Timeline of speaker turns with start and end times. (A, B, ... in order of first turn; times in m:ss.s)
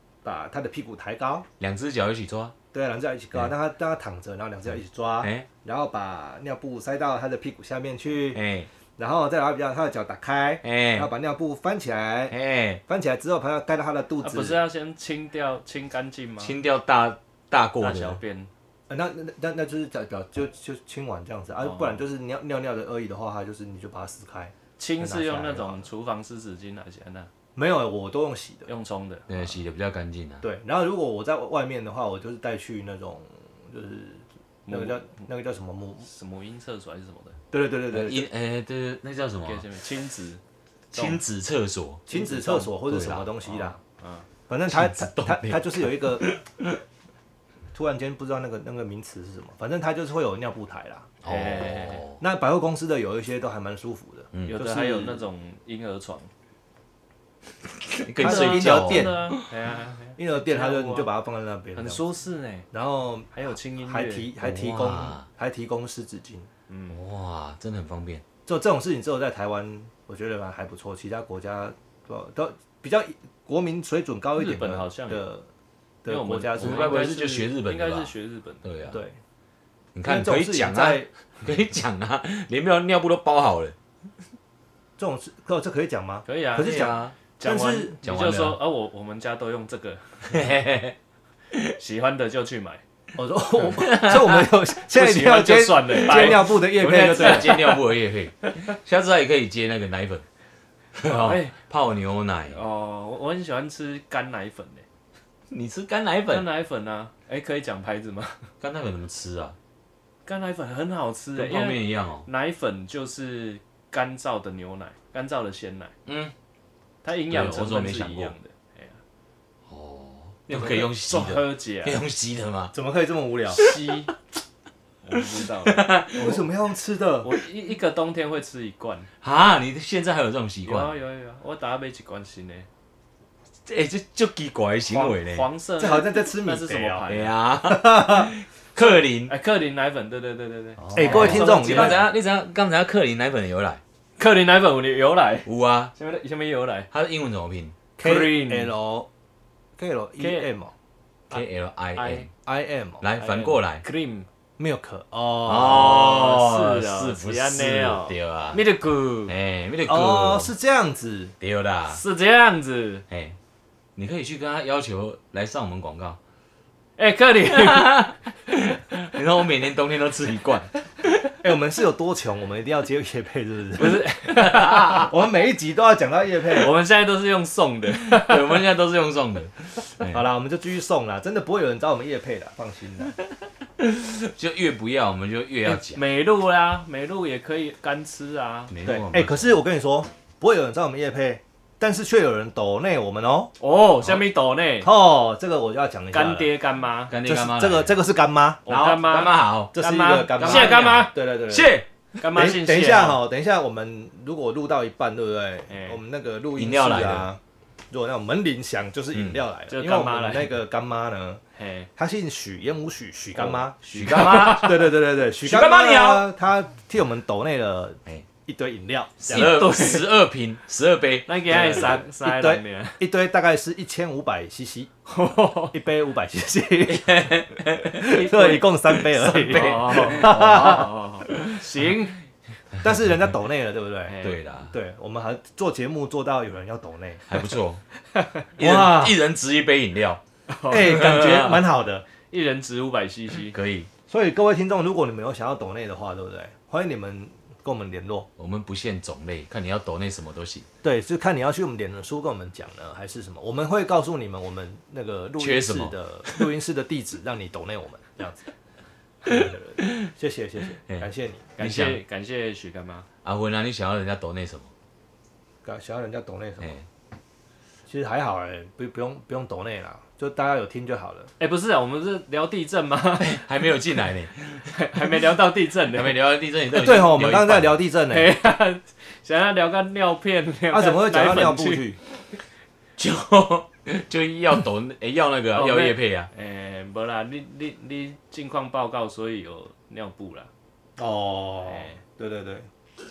0:00.2-0:01.5 A
0:01.6-0:02.5 B
0:02.7-0:08.4 A
0:08.3-0:08.7 B
0:09.0-0:14.6 A
0:10.6-0:11.1 B
0:12.3-0:12.8 B
0:14.2-0:16.5 C
0:16.4-0:18.2 B
0:17.8-0:18.5 C
0:18.9-0:25.9 A
0:21.6-0:22.0 C
0:24.8-0:27.3 C
0:27.6-0:28.7 A
0:28.7-0:29.6 C
0:29.3-0:30.4 B
0:30.4-0:36.1 A
0:34.7-0:35.2 C
0:36.0-0:37.4 C
0:37.5-0:38.2 A
0:37.9-0:39.6 B
0:39.4-0:40.4 C
0:40.9-0:41.2 C
0:40.9-0:43.3 B
0:42.1-0:43.8 A
0:43.4-0:44.3 C
0:44.5-0:46.3 A
0:44.7-0:46.8 B
0:47.7-0:51.1 A
0:51.2-0:52.2 B
0:51.2-0:52.0 C
0:52.2-0:55.3 A
0:54.3-0:54.6 B
0:54.5-0:56.3 C
0:57.8-0:59.4 B
0:58.2-0:59.2 A
0:58.2-1:01.1 C
1:00.2-1:02.0 A
1:01.8-1:02.7 C
1:02.7-1:03.3 A
1:03.3-1:04.3 C
1:03.8-1:06.5 A
1:04.4-1:05.3 B
1:06.7-1:07.0 C
1:06.9-1:08.2 B
1:08.5-1:15.5 A
1:14.4-1:15.3 C
1:16.0-1:17.1 A
1:16.0-1:18.7 C
1:16.6-1:19.0 B
1:18.9-1:19.2 A
1:19.9-1:23.8 B
1:20.0-1:21.1 A
1:25.0-1:28.0 A
1:26.2-1:30.4 C
1:26.6-1:27.2 B
1:28.0-1:28.6 B
1:30.3-1:31.0 B
1:31.8-1:32.8 C
1:33.1-1:37.6 A
1:33.7-1:34.5 B
1:34.9-1:37.7 C
1:35.9-1:40.2 B
1:38.4-1:38.7 C
1:41.0-1:42.6 B
1:41.0-1:41.6 C
1:42.5-1:44.8 C
1:45.5-1:46.5 B
1:46.3-1:48.5 C
1:48.6-1:49.6 B
1:50.2-1:55.9 C
1:51.4-1:52.3 B
1:56.0-1:56.3 B
1:57.0-1:59.0 C
1:57.3-1:58.3 B
1:59.7-2:02.8 B
2:00.5-2:02.0 C
2:02.7-2:03.6 A
2:03.5-2:04.1 C
2:03.5-2:03.9 B
2:05.0-2:06.4 C
2:05.1-2:06.4 B
2:06.1-2:07.3 A
2:07.2-2:09.1 C
2:09.2-2:11.0 B
2:10.6-2:12.7 C
2:13.6-2:15.5 B
2:14.9-2:17.3 C
2:15.8-2:17.1 A
2:17.1-2:19.3 B
2:17.7-2:18.3 A
2:18.8-2:22.1 C
2:20.8-2:23.8 B
2:20.9-2:22.1 A
2:24.2-2:26.9 C
2:25.5-2:25.9 B
2:26.9-2:27.8 B
2:28.0-2:29.1 A
2:28.0-2:28.7 C
2:29.8-2:30.7 A
2:30.2-2:30.5 C
2:31.3-2:32.3 B
2:32.0-2:32.3 C
2:32.4-2:33.0 A
2:33.0-2:33.8 B
2:33.1-2:34.3 C
2:34.6-2:36.1 A
2:35.4-2:38.6 B
2:35.6-2:39.3 C
2:39.3-2:40.5 B
2:39.9-2:41.3 A
2:41.4-2:42.0 B
2:41.9-2:43.0 C
2:43.1-2:43.4 B
2:44.0-2:46.2 B
2:47.0-2:48.1 C
2:47.5-2:50.7 B
2:51.4-2:54.0 A
2:53.8-2:55.1 C
2:54.3-2:55.1 B
2:55.0-2:56.7 A
2:56.5-2:58.6 C
2:58.1-3:00.2 B
3:00.0-3:03.2 A
3:03.8-3:06.0 B
3:05.6-3:08.7 C
3:08.7-3:09.5 B
3:08.8-3:13.5 A
3:13.6-3:14.9 C
3:14.8-3:16.5 A
3:16.1-3:17.1 C
3:17.1-3:18.0 B
3:17.2-3:18.7 A
3:18.6-3:19.8 B
3:18.6-3:21.6 C
3:19.7-3:21.8 A
3:20.4-3:21.8 B
3:22.2-3:23.2 C
3:22.3-3:31.4 A
3:25.7-3:26.0 C
3:26.5-3:27.3 B
3:29.1-3:29.4 B
3:29.7-3:30.5 C
3:31.5-3:31.9 C
3:32.0-3:39.8 A
3:33.4-3:34.8 C
3:33.9-3:34.9 B
3:35.4-3:36.2 B
3:39.2-3:40.0 C
3:39.3-3:42.0 B
3:41.3-3:43.0 C
3:41.5-3:44.9 A
3:45.1-3:45.8 C
3:45.7-3:50.9 A
3:46.9-3:48.4 B
3:48.0-3:52.2 C
3:49.0-3:50.8 B
3:52.8-3:54.2 A
3:54.0-3:54.4 C
3:54.2-3:54.7 B
3:54.7-3:57.4 A
3:57.3-3:57.8 B
3:58.6-3:59.2 A
3:58.6-4:00.2 B
4:00.5-4:01.6 C
4:00.7-4:02.0 A
4:02.3-4:03.5 C
4:03.5-4:03.9 B
4:04.1-4:08.3 A
4:08.4-4:10.6 B
4:10.8-4:18.4 A
4:15.4-4:16.5 B
4:19.2-4:21.5 A
4:19.3-4:20.1 B
4:21.6-4:23.1 C
4:21.6-4:22.0 B
4:23.2-4:24.7 B
4:25.6-4:26.8 A
4:27.9-4:31.3 A
4:31.4-4:33.4 C
4:33.2-4:35.1 B
4:34.7-4:36.2 C
4:35.9-4:37.8 B
4:36.7-4:38.3 A
4:38.1-4:41.9 C
4:40.7-4:42.0 A
4:43.0-4:46.3 B
4:45.5-4:50.5 C
4:51.0-4:52.7 A
4:51.6-4:52.0 C